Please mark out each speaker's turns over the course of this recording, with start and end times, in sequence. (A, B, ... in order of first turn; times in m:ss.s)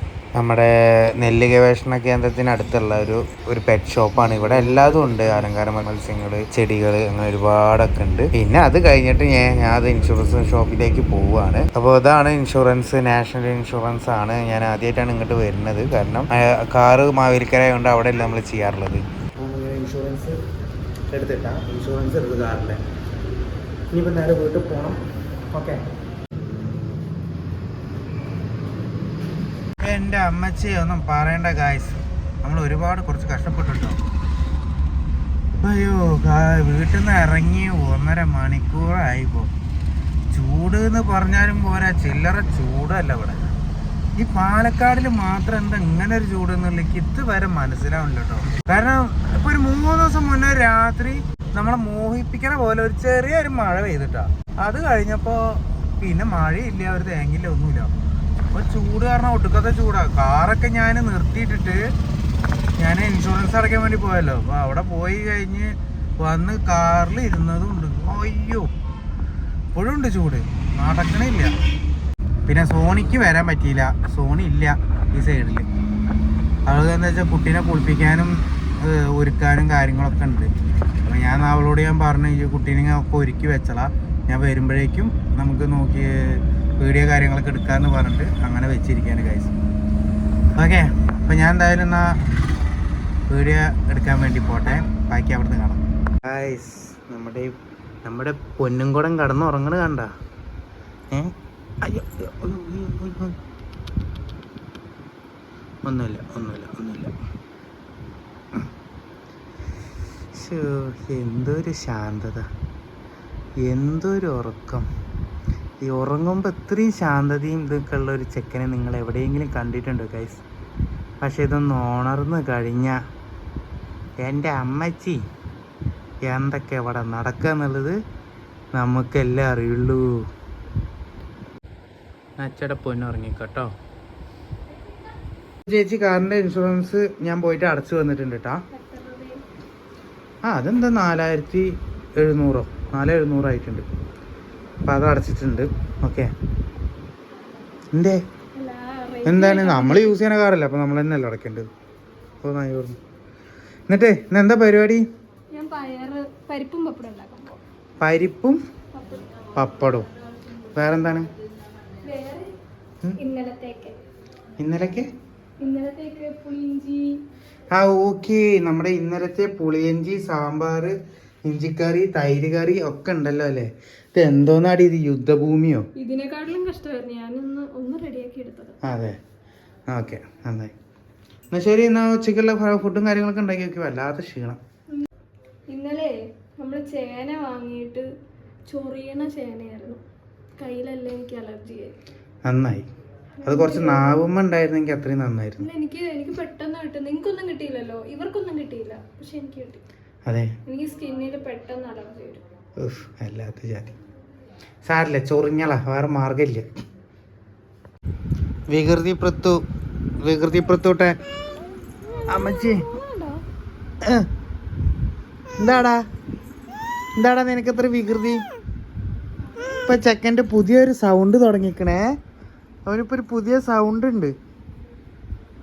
0:00.4-0:20.4 A
0:21.1-0:22.8 A
0:23.9-0:25.0 A
0:25.5-0:25.8 A
0:29.8-0:34.0 A
0:35.6-0:39.5 A
0:40.3-0:43.4 A
0:44.2-0:57.9 A
0:58.5-1:01.8 A
1:02.8-1:08.7 A
1:09.8-1:11.5 A
1:12.5-1:15.7 A
1:16.7-1:29.5 A
1:30.6-1:32.2 A
1:33.3-1:37.5 A
1:38.0-1:40.1 A
1:41.1-1:43.4 A
1:45.8-1:47.1 A
1:50.3-1:52.5 A
1:53.6-1:54.9 A
1:55.8-2:00.4 A
2:01.2-2:03.0 A
2:04.2-2:05.2 A
2:06.3-2:08.0 A
2:08.8-2:10.1 A
2:12.4-2:13.7 A
2:15.7-2:18.6 A
2:18.7-2:19.4 B
2:20.4-2:23.9 A
2:24.8-2:26.3 A
2:27.9-2:28.2 A
2:28.6-2:30.2 B
2:29.3-2:31.7 A
2:32.4-2:33.0 A
2:33.9-2:35.0 A
2:35.5-2:37.6 B
2:38.0-2:38.6 A
2:39.0-2:39.5 B
2:39.6-2:40.1 A
2:40.7-2:41.3 A
2:42.0-2:42.5 B
2:43.2-2:43.9 B
2:44.6-2:45.1 A
2:45.6-2:47.1 B
2:47.7-2:50.9 A
2:51.5-2:55.9 A
2:56.0-2:58.8 B
2:58.8-2:59.2 A
2:59.9-3:00.7 A
3:01.5-3:04.6 A
3:05.7-3:08.1 B
3:08.7-3:10.0 B
3:10.6-3:12.0 B
3:12.5-3:12.9 A
3:13.4-3:14.2 B
3:13.5-3:15.7 A
3:15.6-3:19.8 B
3:20.3-3:20.5 A
3:20.7-3:22.4 B
3:22.8-3:24.0 A
3:24.9-3:26.6 A
3:28.7-3:29.6 A
3:30.2-3:31.1 A
3:32.0-3:33.4 B
3:32.3-3:32.8 A
3:35.6-3:36.0 A
3:37.2-3:38.4 A
3:39.9-3:42.1 A
3:42.9-3:44.3 A